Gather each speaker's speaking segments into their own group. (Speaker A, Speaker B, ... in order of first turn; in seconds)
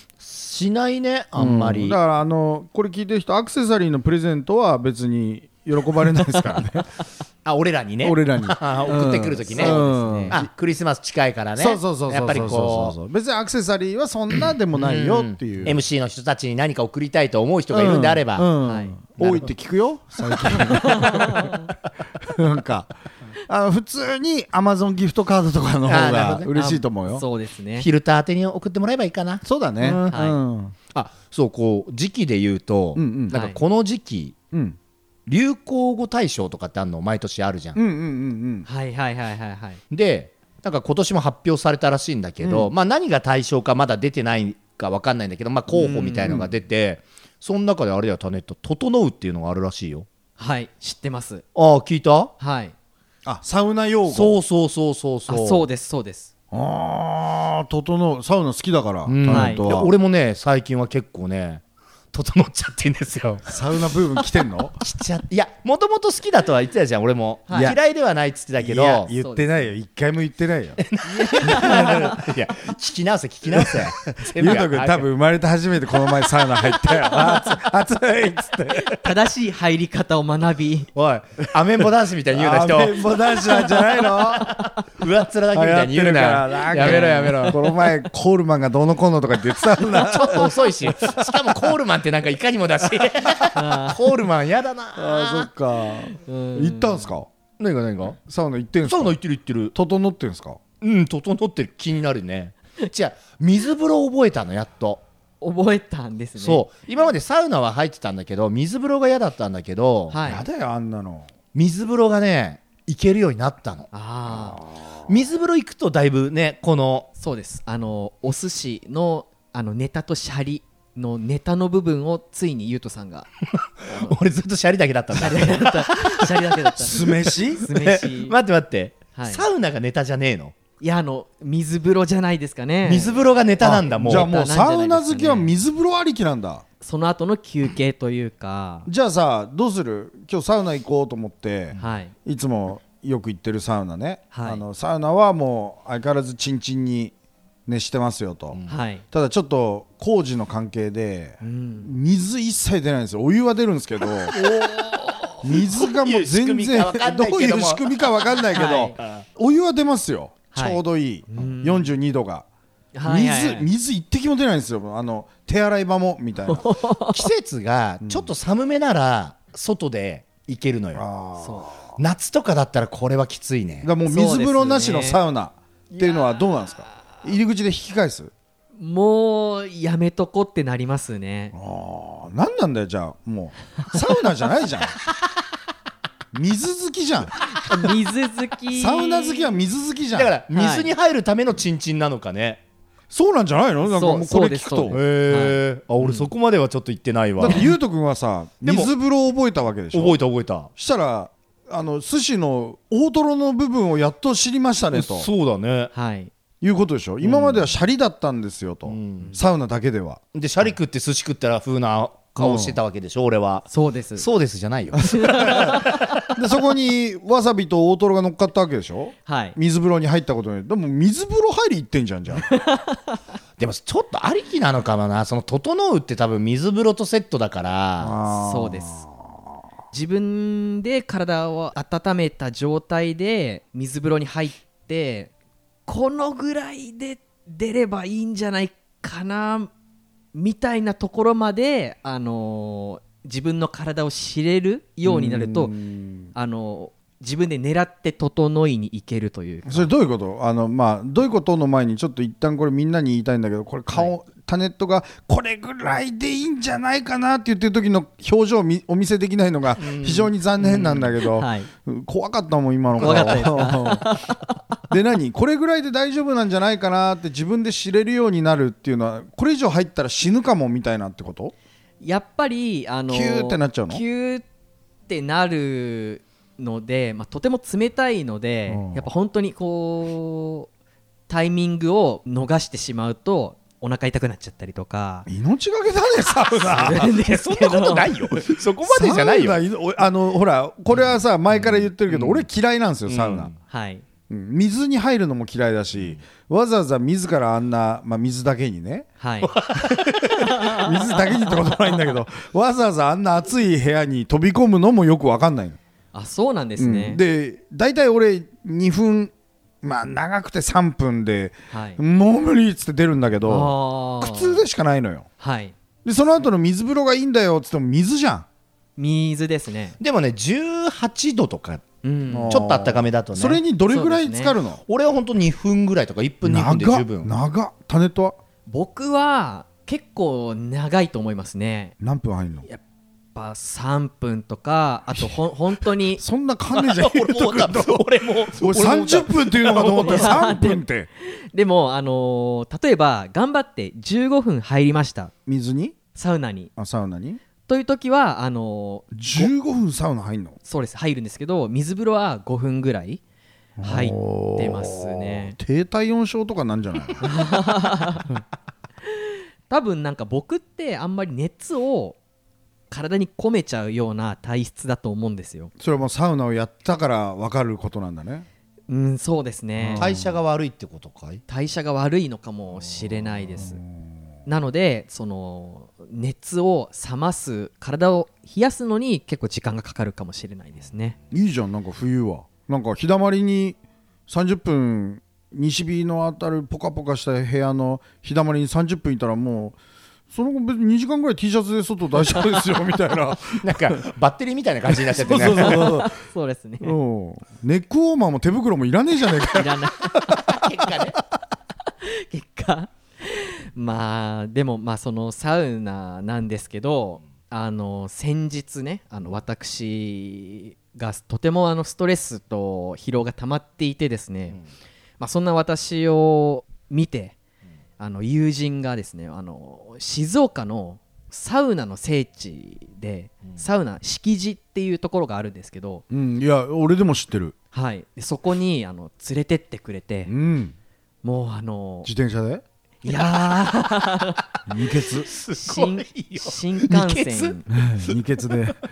Speaker A: 0.2-2.0, 7.4-12.9, 14.7-18.5, 19.2-19.5, 20.5-20.7, 25.9-26.5, 27.8-30.3, 30.9-34.4, 35.3-37.8, 39.9-50.1, 51.5-52.3, 54.1-55.7, 59.0-61.6, 62.1-63.5, 64.8-69.1, 70.8-75.1, 76.9-77.7, 80.9-83.1, 84.4-87.6, 89.9-95.5, 97.6-98.2, 98.8-99.7, 100.8-105.0, 106.4-110.3, 111.5-113.9, 115.1-117.1, 123.8-130.5, 132.8-134.3, 148.5-148.8, 154.3-158.4, 158.9-159.2, 167.0-171.1, 172.0-173.9, 190.1-192.6, 194.9-197.7, 198.6-198.9, 199.9-200.7, 204.9-205.9, 207.2-207.7, 208.8-209.3, 210.3-216.3, 223.6-228.2, 259.8-261.0, 263.0-263.4, 286.4-289.6, 291.6-292.4, 293.1-293.5, 295.9-296.2, 299.4-300.5, 320.0-321.8, 322.5-323.6, 324.9-327.3, 336.7-340.4, 370.0-371.4, 393.6-395.9, 400.3-401.2, 435.2-438.2
Speaker B: 1.4-6.9, 8.0-10.5, 11.6-15.8, 17.7-21.5, 22.2-27.2, 29.4-30.7, 32.9-33.3, 37.7-38.6, 42.4-42.7, 53.2-54.4, 56.5-59.9, 63.5-64.8, 67.5-67.8, 68.6-70.8, 71.5-72.2, 73.5-79.0, 82.3-84.5, 85.5-90.7, 94.9-97.3, 98.2-99.2, 99.7-100.6, 110.2-111.3, 114.3-115.1, 126.8-127.6, 133.6-136.6, 138.8-147.1, 147.7-154.4, 155.4-162.4, 163.0-166.6, 168.0-168.3, 170.9-172.0, 173.8-178.3, 181.5-184.9, 186.3-187.4, 188.7-190.3, 193.1-195.0, 197.4-200.2, 200.8-205.3, 206.6-210.2, 212.4-212.8, 215.2-222.5, 228.0-229.5, 245.0-246.3, 249.7-264.1, 264.9-271.5, 273.1-274.0, 278.7-279.1, 285.3-287.1, 288.8-293.5, 294.3-299.1, 299.8-305.8, 306.8-315.3, 316.0-318.5, 322.3-324.8, 326.4-328.4, 332.0-332.7, 336.2-341.1, 345.4-346.0, 346.8-347.4, 349.1-350.6, 353.8-357.3, 365.8-368.4, 369.8-370.4, 373.6-374.3, 381.3-389.8, 390.3-393.9, 395.1-396.1, 396.8-400.4, 426.1-427.5, 430.2-430.7, 432.0-432.6, 434.6-435.3, 437.7-438.8
Speaker C: 9.5-10.3, 18.6-19.0, 20.7-21.7, 26.5-27.9, 30.1-30.4, 33.3-33.6, 38.6-39.8, 45.7-46.4, 50.4-51.4, 52.4-52.7, 55.3-56.3, 59.3-59.6, 67.5-67.7, 69.2-69.6, 71.0-72.1, 78.9-80.9, 86.8-87.6, 93.5-94.0, 96.1-97.1, 105.4-106.7, 110.1-110.4, 113.9-114.6, 117.2-123.3, 123.9-124.2, 125.2-128.3, 129.1-129.4, 130.8-133.2, 133.9-135.5, 136.8-138.9, 141.8-142.1, 144.3-144.6, 148.7-149.0, 151.4-151.9, 158.5-158.9, 160.5-161.9, 162.9-163.7, 166.5-167.2, 171.4-171.7, 174.1-175.2, 175.9-176.3, 178.8-181.5, 187.6-189.5, 190.5-190.9, 193.8-196.2, 205.9-206.3, 213.7-214.2, 215.1-215.9, 219.2-219.6, 222.6-223.1, 228.4-229.0, 229.9-235.3, 235.9-239.7, 240.3-245.7, 246.3-249.9, 261.2-261.7, 263.0-264.6, 272.0-274.4, 275.1-280.7, 281.3-285.3, 286.7-288.1, 293.7-294.0, 299.2-299.5, 300.4-300.9, 306.1-307.2, 311.7-312.0, 313.4-314.6, 315.4-315.7, 319.0-320.0, 322.0-322.6, 323.9-324.6, 328.7-331.9, 333.3-336.2, 339.9-345.3, 346.1-346.7, 347.6-349.5, 350.6-353.2, 353.8-355.6, 357.2-358.2, 359.7-362.2, 362.9-365.7, 368.9-370.1, 371.5-373.8, 374.4-381.2, 395.3-396.9, 399.5-400.4, 402.0-414.6, 415.2-417.4, 418.0-426.0, 427.7-430.3, 431.2-432.1, 433.0-434.4, 435.5-437.6